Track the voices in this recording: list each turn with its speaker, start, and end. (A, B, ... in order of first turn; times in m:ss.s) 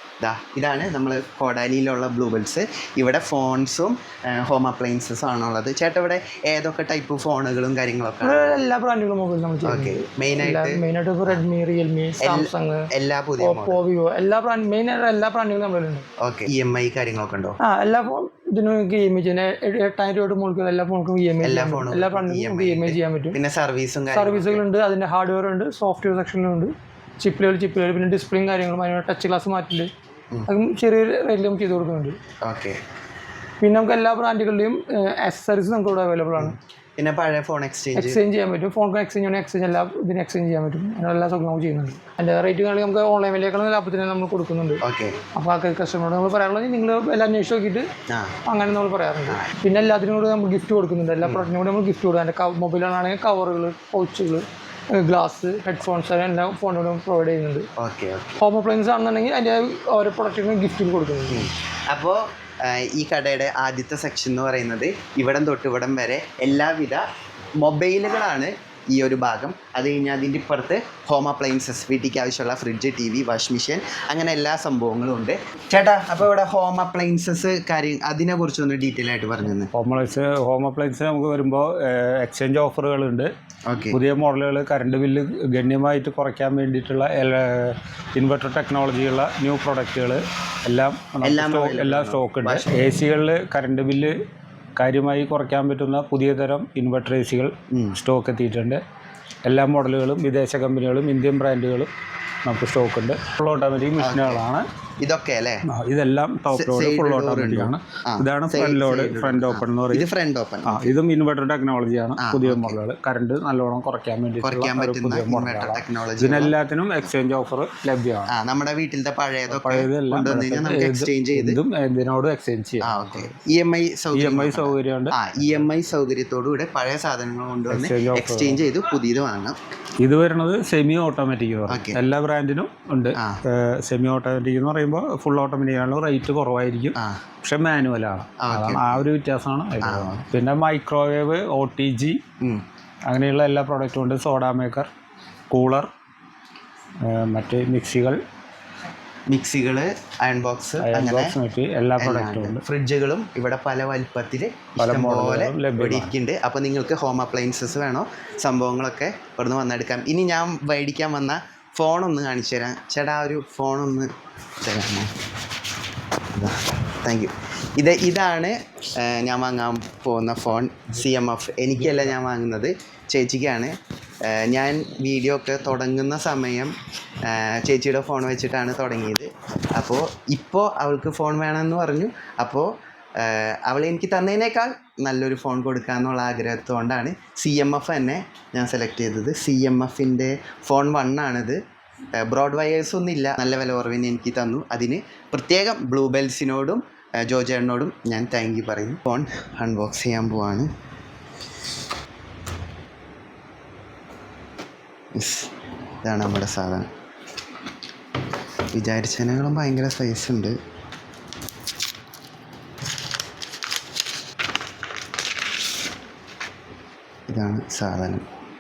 0:00.2-0:08.6 A
0:08.2-0:16.1 B
0:09.6-0:11.4 A
0:12.2-0:13.8 A
0:16.2-0:17.6 A
0:17.6-0:23.4 B
0:21.4-0:24.6 A
0:24.1-0:29.9 B
0:30.5-0:32.2 B
0:32.4-0:32.8 A
0:33.6-0:36.6 B
0:36.4-0:38.2 A
0:38.0-0:44.8 B
0:44.8-0:45.2 A
0:45.3-0:47.9 B
0:48.1-0:48.4 A
0:48.5-0:57.7 B
0:57.8-0:58.4 A
0:58.4-1:01.5 B
1:01.3-1:07.0 A
1:07.6-1:19.7 A
1:19.7-1:23.3 C
1:23.7-1:24.0 A
1:23.9-1:34.1 C
1:31.2-1:32.7 A
1:34.8-1:38.8 C
1:37.7-1:38.0 A
1:39.4-1:41.9 C
1:42.4-1:44.7 C
1:44.0-1:44.4 A
1:45.0-1:45.6 A
1:45.7-1:50.1 C
1:46.5-1:51.0 A
1:50.6-1:58.3 C
1:52.2-1:52.8 A
1:54.4-1:56.6 A
1:58.3-2:01.6 A
1:59.5-2:03.3 C
2:02.8-2:09.6 A
2:04.1-2:05.2 C
2:07.7-2:08.6 C
2:10.0-2:22.2 C
2:11.7-2:12.0 A
2:13.2-2:13.4 A
2:17.0-2:17.2 A
2:18.4-2:19.1 A
2:19.8-2:20.3 A
2:23.1-2:24.9 C
2:25.5-2:25.9 C
2:27.1-2:28.2 C
2:29.3-2:31.4 A
2:30.8-2:32.6 C
2:32.0-2:44.1 A
2:34.8-2:36.1 C
2:44.6-2:45.1 A
2:46.3-3:11.6 A
3:12.2-3:20.7 A
3:25.1-3:25.5 A
3:26.0-3:26.9 A
3:28.7-3:30.6 A
3:37.3-3:38.2 A